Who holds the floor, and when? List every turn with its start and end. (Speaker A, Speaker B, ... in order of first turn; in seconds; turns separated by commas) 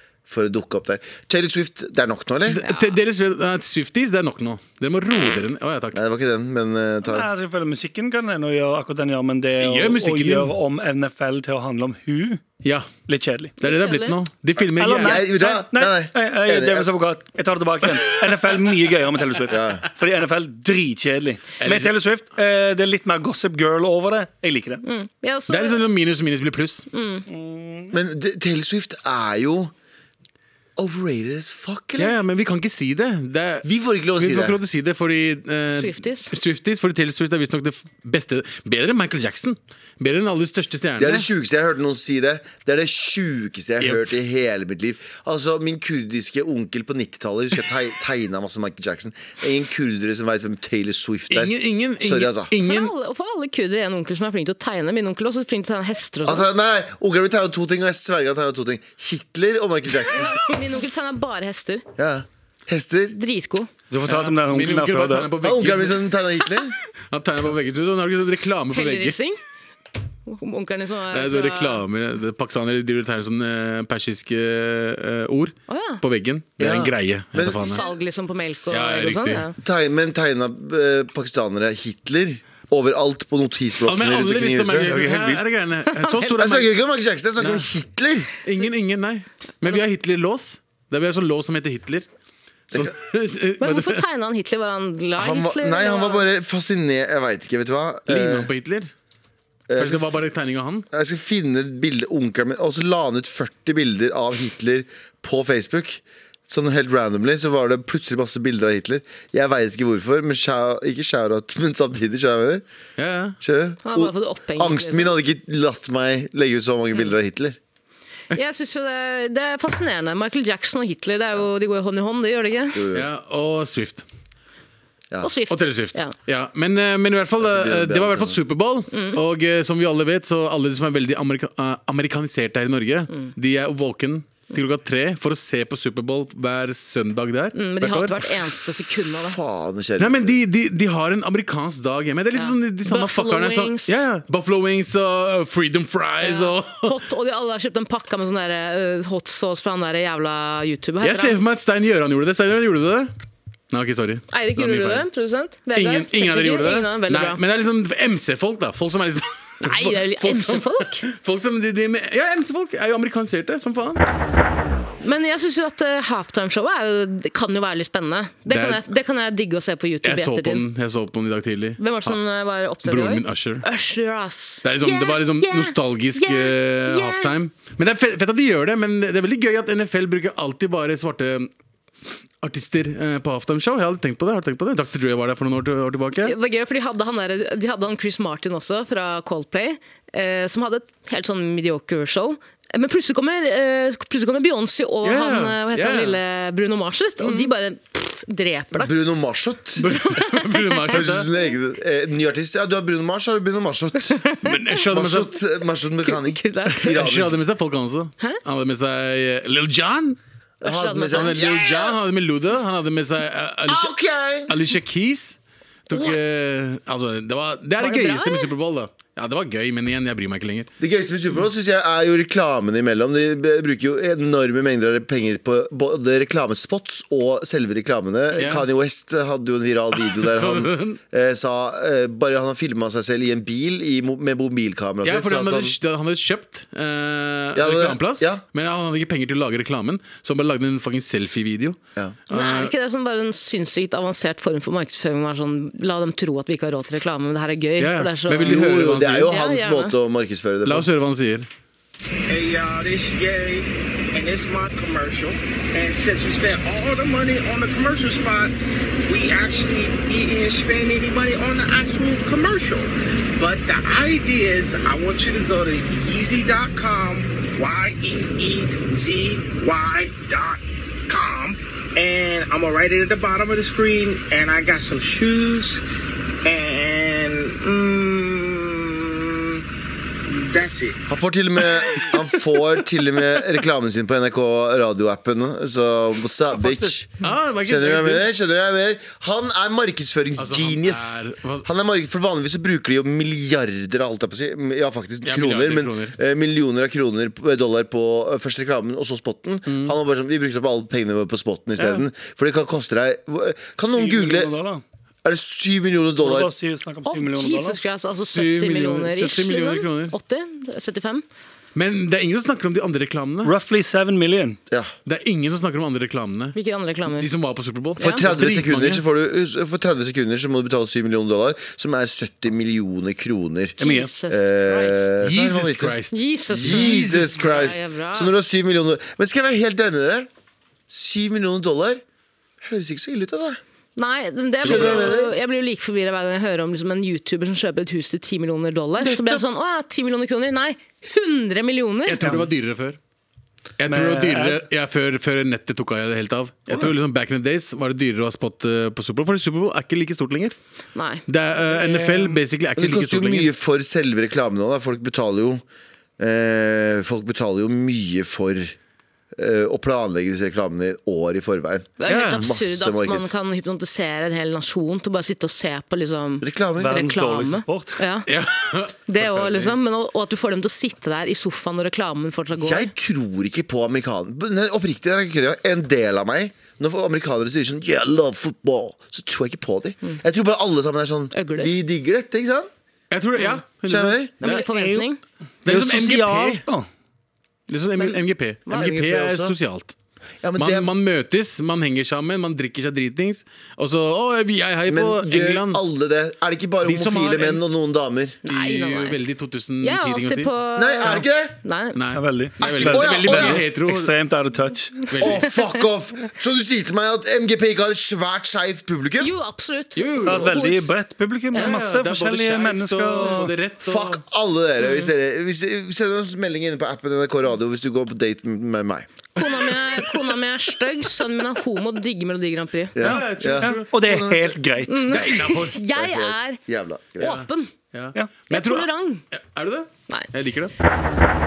Speaker A: 0.3-2.6, Speaker B: 2.5-6.0, Speaker C: 2.6-2.9, Speaker A: 5.9-7.3, Speaker D: 7.0-12.4, Speaker B: 9.6-10.5, Speaker B: 12.6-12.9, Speaker D: 13.1-13.6, Speaker B: 13.6-15.3, Speaker C: 13.6-14.2, Speaker D: 14.8-24.8, Speaker A: 15.0-16.9, Speaker A: 19.5-19.8, Speaker B: 21.6-21.9, Speaker C: 24.8-25.8, Speaker B: 25.5-26.9, Speaker C: 26.9-27.2, Speaker D: 27.3-28.0, Speaker A: 27.9-29.7, Speaker A: 30.8-32.2, Speaker B: 32.0-41.3, Speaker A: 33.6-34.6, Speaker C: 35.7-36.3, Speaker A: 41.0-52.5, Speaker B: 51.3-52.9, Speaker C: 52.5-56.5, Speaker A: 56.2-60.4, Speaker C: 60.1-61.9, Speaker A: 62.0-63.2, Speaker C: 63.1-63.7, Speaker D: 63.9-65.3, Speaker B: 64.0-66.0, Speaker A: 65.4-66.8, Speaker B: 67.1-69.2, Speaker C: 68.7-69.4, Speaker C: 70.3-71.8, Speaker B: 71.1-77.8, Speaker C: 75.7-76.0, Speaker A: 76.6-77.9, Speaker C: 77.6-79.6, Speaker B: 78.7-79.5, Speaker A: 79.6-84.9, Speaker B: 83.8-86.7, Speaker D: 84.8-85.5, Speaker C: 85.9-86.4, Speaker A: 86.4-88.3, Speaker B: 87.4-87.7, Speaker B: 88.4-92.1, Speaker B: 92.7-94.0, Speaker C: 93.6-96.3, Speaker A: 95.2-98.5, Speaker B: 98.1-98.9, Speaker A: 99.7-100.2, Speaker B: 99.8-100.9, Speaker A: 100.9-112.6, Speaker B: 113.0-113.4, Speaker A: 113.4-117.6, Speaker C: 113.8-115.2, Speaker C: 118.3-122.8, Speaker A: 122.7-123.1, Speaker B: 122.9-124.0, Speaker C: 125.2-126.1, Speaker B: 125.5-138.7, Speaker A: 127.4-128.4, Speaker C: 128.9-129.2, Speaker C: 137.5-139.4, Speaker A: 139.2-140.4, Speaker B: 140.0-147.0, Speaker C: 142.3-144.1, Speaker C: 146.2-151.4, Speaker B: 151.0-153.1, Speaker B: 153.7-155.1, Speaker C: 154.3-157.4, Speaker B: 155.8-164.0, Speaker C: 159.6-161.1, Speaker C: 165.0-170.7, Speaker B: 168.5-168.8, Speaker B: 170.0-172.2, Speaker C: 171.8-177.3, Speaker B: 172.8-173.7, Speaker B: 174.6-181.5, Speaker B: 182.0-186.3, Speaker C: 186.2-198.9, Speaker B: 195.0-196.2, Speaker B: 197.2-197.5, Speaker A: 198.7-199.8, Speaker C: 199.8-201.1, Speaker B: 199.8-201.3, Speaker A: 200.9-204.2, Speaker C: 204.2-204.6, Speaker B: 204.4-205.3, Speaker A: 204.9-207.4, Speaker C: 206.0-206.9, Speaker B: 206.8-210.2, Speaker C: 210.6-211.5, Speaker A: 210.6-212.0, Speaker B: 211.1-214.0, Speaker A: 213.7-214.6, Speaker B: 214.5-220.7, Speaker C: 215.9-216.4, Speaker C: 217.8-218.5, Speaker A: 220.8-235.8, Speaker B: 228.3-228.7, Speaker B: 230.0-231.0, Speaker B: 235.0-242.7, Speaker A: 237.6-238.4, Speaker C: 242.3-249.9, Speaker B: 247.8-249.3, Speaker A: 248.4-250.9, Speaker B: 250.7-251.5, Speaker E: 252.3-258.5, Speaker E: 259.1-275.8, Speaker E: 276.4-279.6, Speaker E: 280.4-281.0, Speaker A: 281.1-304.5, Speaker D: 286.5-287.0, Speaker B: 287.2-288.3, Speaker B: 290.4-291.7, Speaker B: 295.2-296.1, Speaker B: 299.7-299.9, Speaker B: 301.8-302.1, Speaker D: 303.9-304.8, Speaker A: 305.2-306.5, Speaker D: 306.2-307.8, Speaker C: 307.1-311.2, Speaker B: 308.2-310.1, Speaker B: 311.8-313.5, Speaker D: 313.4-314.6, Speaker B: 315.1-316.6, Speaker C: 316.5-317.3, Speaker B: 317.1-319.0, Speaker C: 318.0-318.3, Speaker A: 318.0-326.0, Speaker D: 323.8-324.1, Speaker C: 323.8-325.1, Speaker B: 325.2-327.3, Speaker C: 326.1-328.3, Speaker A: 326.5-330.3, Speaker A: 330.9-332.0, Speaker A: 332.6-333.6, Speaker C: 334.0-342.2, Speaker A: 334.6-335.3, Speaker B: 334.6-335.1, Speaker A: 339.0-339.4, Speaker B: 342.1-343.0, Speaker D: 342.2-342.5, Speaker B: 343.8-350.6, Speaker D: 343.9-344.6, Speaker C: 350.9-352.4, Speaker B: 351.3-353.5, Speaker A: 352.8-355.6, Speaker A: 356.2-358.8, Speaker A: 359.3-363.3, Speaker C: 362.0-368.3, Speaker B: 362.1-362.5, Speaker A: 366.4-366.9, Speaker D: 366.8-368.0, Speaker B: 368.3-369.8, Speaker C: 369.1-372.9, Speaker A: 372.6-382.7, Speaker C: 381.3-381.7, Speaker B: 383.1-384.6, Speaker C: 383.4-383.6, Speaker A: 383.9-384.3, Speaker C: 384.4-385.2, Speaker D: 384.4-385.1, Speaker B: 385.6-386.6, Speaker D: 385.6-386.9, Speaker B: 387.7-389.9, Speaker C: 388.0-389.0, Speaker A: 388.7-389.6, Speaker A: 390.4-390.9, Speaker B: 390.6-395.8, Speaker A: 394.9-398.4, Speaker B: 396.8-397.6, Speaker C: 398.4-399.2, Speaker B: 398.5-400.5, Speaker C: 399.8-402.0, Speaker A: 400.8-401.6, Speaker B: 401.9-404.1, Speaker D: 402.1-405.0, Speaker A: 402.6-403.6, Speaker B: 405.1-405.6, Speaker A: 405.2-409.3, Speaker C: 409.2-410.9, Speaker B: 410.0-410.8, Speaker D: 410.2-413.5, Speaker B: 411.6-414.2, Speaker A: 413.9-419.1, Speaker C: 414.8-415.1, Speaker C: 419.4-422.9, Speaker A: 422.9-424.6, Speaker B: 423.0-423.9, Speaker D: 423.0-425.0, Speaker C: 424.9-426.6, Speaker B: 425.1-425.8, Speaker A: 426.0-427.5, Speaker C: 427.2-427.7, Speaker B: 427.2-430.7, Speaker C: 428.5-429.2